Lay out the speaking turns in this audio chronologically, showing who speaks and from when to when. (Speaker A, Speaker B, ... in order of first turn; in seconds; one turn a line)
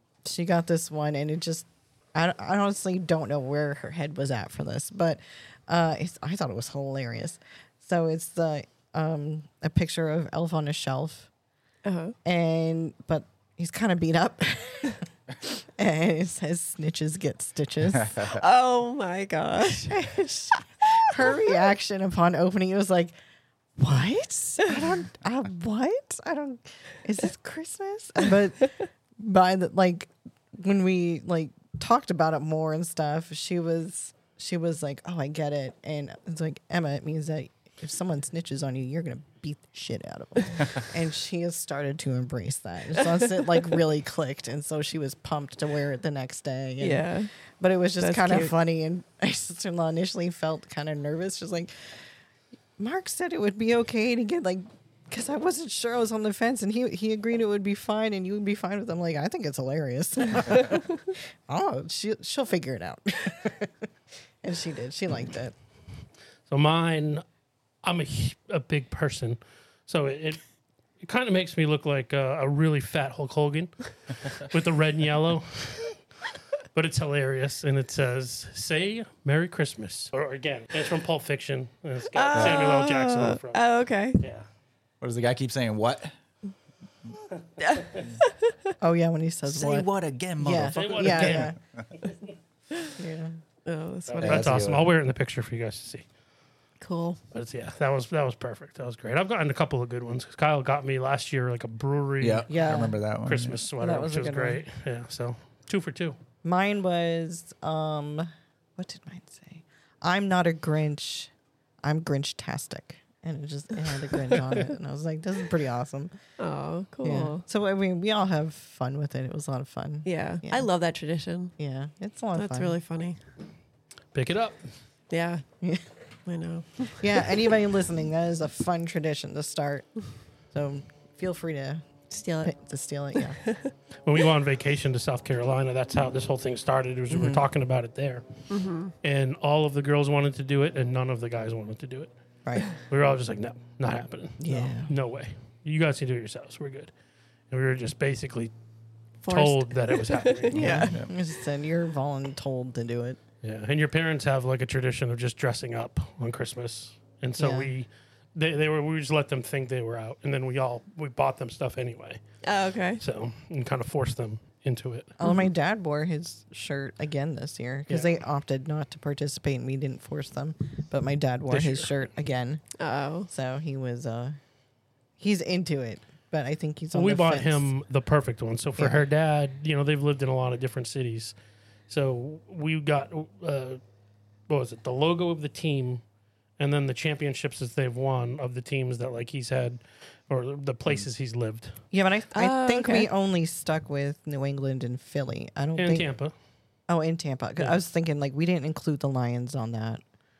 Speaker A: 0.2-11.3
Speaker B: 11.8-12.1
Speaker A: 12.2-18.2
Speaker C: 18.0-18.4
Speaker B: 18.3-20.1
Speaker A: 19.8-23.1
Speaker A: 23.8-47.1
Speaker B: 46.8-47.3
Speaker A: 47.6-51.9
Speaker B: 48.0-48.5
Speaker A: 52.8-60.8
Speaker A: 61.5-63.9
Speaker A: 64.4-65.5
Speaker D: 66.5-67.2
Speaker D: 67.8-70.4
Speaker D: 71.0-75.9
Speaker D: 76.7-83.6
Speaker B: 82.1-84.2
Speaker D: 84.2-84.4
Speaker C: 85.0-86.1
Speaker B: 87.6-88.7
Speaker A: 88.8-89.9
Speaker C: 89.5-91.8
Speaker A: 90.4-91.5
Speaker D: 90.7-91.5
Speaker A: 93.0-93.4
Speaker B: 93.7-94.5
Speaker D: 94.1-96.0
Speaker C: 94.2-94.9
Speaker B: 96.8-97.2
Speaker D: 97.3-102.5
Speaker C: 102.2-103.6
Speaker A: 102.5-103.0
Speaker D: 103.2-106.2
Speaker A: 103.8-104.6
Speaker A: 106.4-111.3
Speaker A: 111.8-116.1
Speaker B: 116.4-117.4
Speaker A: 117.0-120.7
Speaker B: 120.0-121.5
Speaker A: 121.6-122.7
Speaker B: 122.3-123.2
Speaker D: 124.1-124.6
Speaker B: 125.1-125.4
Speaker B: 126.2-127.3
Speaker A: 127.0-129.9
Speaker A: 130.5-131.8
Speaker B: 132.1-132.5
Speaker A: 132.4-133.4
Speaker B: 133.2-133.7
Speaker D: 134.0-138.2
Speaker A: 137.1-137.4
Speaker B: 138.5-138.9
Speaker D: 139.0-142.1
Speaker D: 142.7-146.9
Speaker A: 144.4-144.9
Speaker D: 147.5-148.5
Speaker B: 149.2-151.0
Speaker D: 149.3-150.9
Speaker C: 150.5-151.1
Speaker A: 150.5-153.2
Speaker D: 153.4-162.2
Speaker A: 157.4-157.7
Speaker B: 162.4-163.0
Speaker D: 163.0-165.2
Speaker A: 165.2-172.6
Speaker D: 167.9-168.2
Speaker D: 171.5-171.9
Speaker B: 172.8-173.3
Speaker A: 173.3-174.4
Speaker A: 175.2-177.7
Speaker D: 176.9-181.3
Speaker A: 178.8-179.0
Speaker D: 181.9-183.8
Speaker D: 184.5-186.0
Speaker D: 186.6-191.8
Speaker A: 191.9-196.1
Speaker B: 192.3-193.1
Speaker D: 195.8-196.3
Speaker A: 196.9-200.0